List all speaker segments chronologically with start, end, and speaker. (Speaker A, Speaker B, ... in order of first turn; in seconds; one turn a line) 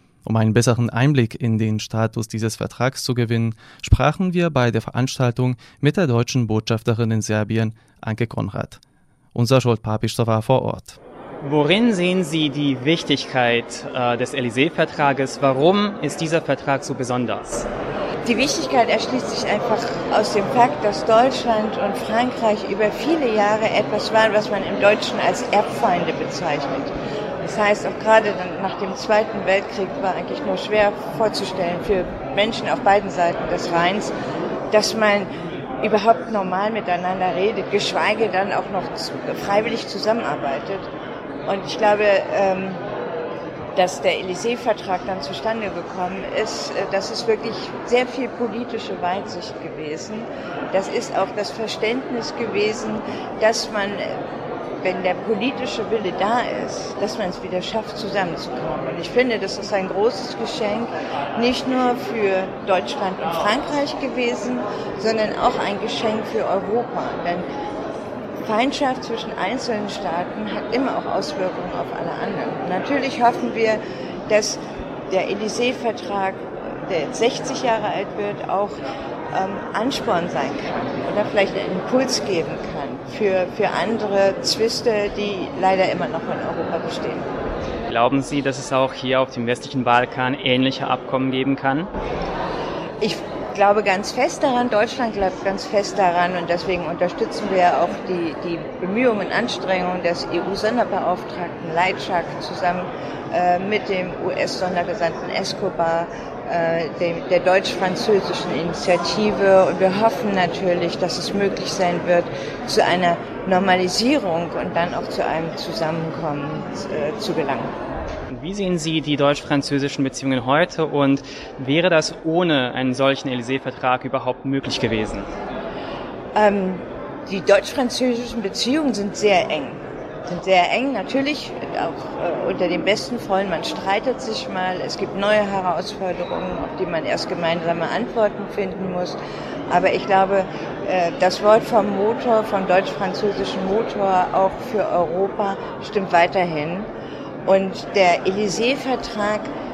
Speaker A: 0.3-8.8
Speaker A: 9.3-11.0
Speaker B: 11.4-17.7
Speaker C: 18.3-34.1
Speaker C: 34.7-35.3
Speaker C: 35.8-40.9
Speaker C: 41.5-42.8
Speaker C: 43.8-54.2
Speaker C: 54.8-67.5
Speaker C: 68.4-78.8
Speaker C: 79.3-87.3
Speaker B: 87.9-91.9
Speaker C: 93.0-117.7
Speaker B: 118.3-125.3
Speaker C: 126.3-139.2
Speaker C: 139.7-146.9
Speaker C: 147.5-149.5